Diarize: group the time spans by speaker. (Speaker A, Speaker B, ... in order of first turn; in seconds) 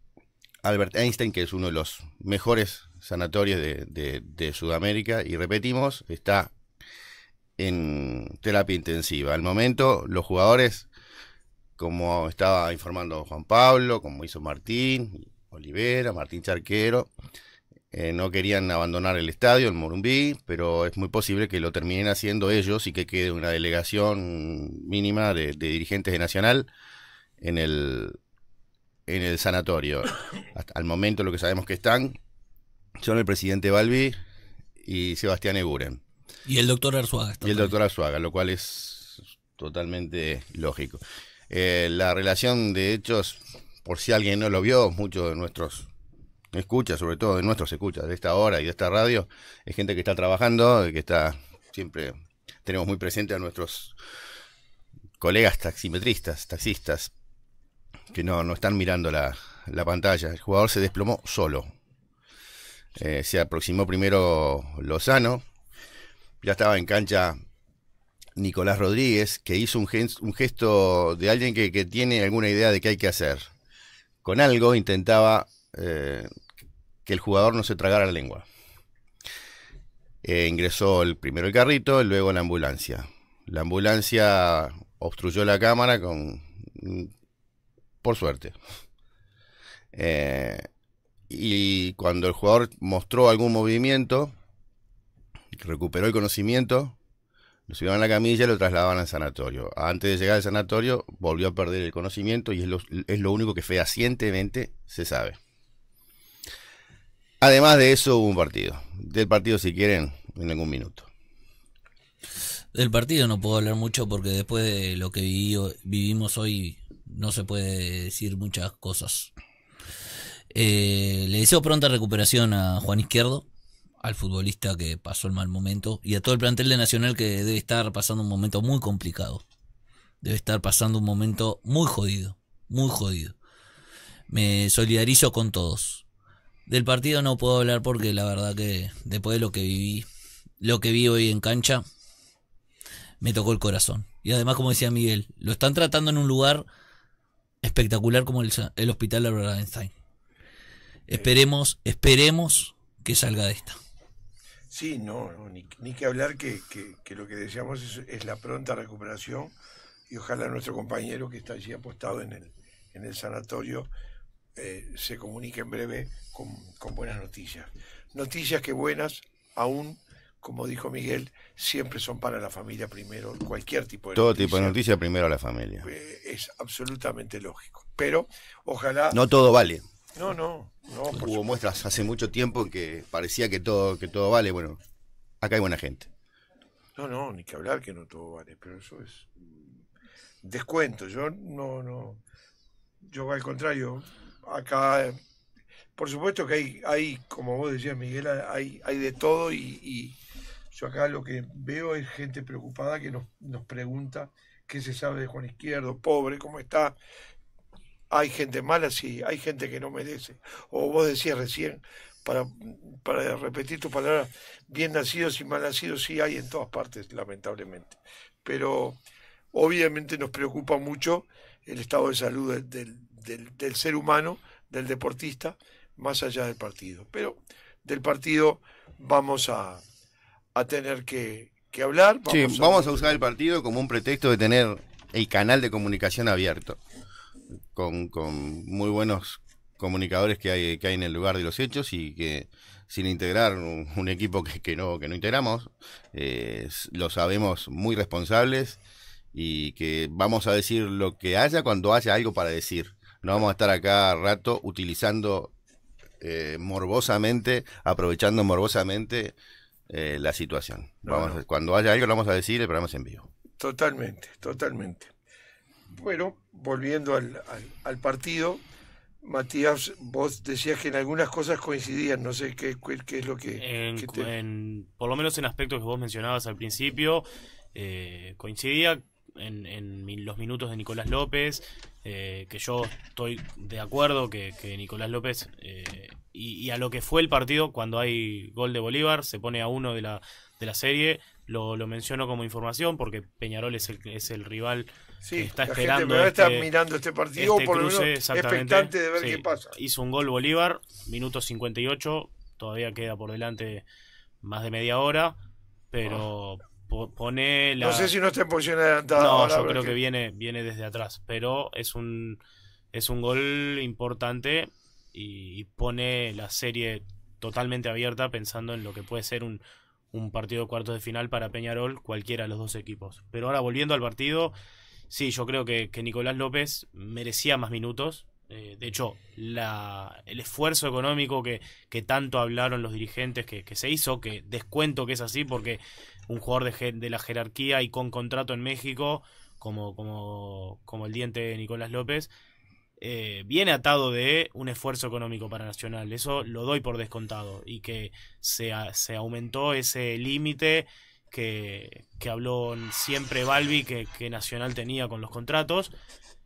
Speaker A: 0.6-6.5, 7.6-10.9, 11.8-17.1, 17.9-26.7, 27.4-28.2, 29.1-32.2, 33.0-34.1, 34.8-36.0, 37.4-45.9, 46.5-54.0, 55.2-57.1, 58.1-61.7, 63.0-65.4, 66.4-67.3, 68.4-73.4, 74.2-76.3, 77.0-78.5, 80.2-87.1, 88.0-88.5, 89.9-90.6, 91.3-94.3, 95.6-97.0, 97.7-105.4, 107.4-111.1, 174.1-175.9, 179.1-179.8, 181.2-184.8, 185.4-186.1, 232.3-236.8, 237.7-248.8, 249.3-255.5, 256.2-259.3, 259.9-263.3
Speaker B: 36.5-37.7, 112.7-119.3, 120.5-123.5, 124.0-129.4, 130.2-133.3, 134.3-136.0, 136.7-140.1, 140.6-141.8, 143.2-146.7, 147.6-149.9, 151.1-153.8
Speaker C: 154.7-159.5, 160.1-163.9, 164.6-174.8, 175.8-179.2, 180.2-181.6, 186.9-189.7, 190.4-192.2, 193.1-195.2, 195.9-200.2, 200.7-206.9, 208.1-219.0, 219.5-229.8, 230.5-233.1, 261.0-261.4, 263.6-265.1, 265.9-268.6, 269.2-274.3, 295.2-299.7, 307.8-310.0
Speaker D: 273.6-296.7, 297.4-303.9, 304.4-305.4, 305.9-308.1, 309.1-312.4, 312.9-319.6, 320.1-324.5, 325.1-342.3, 343.0-355.9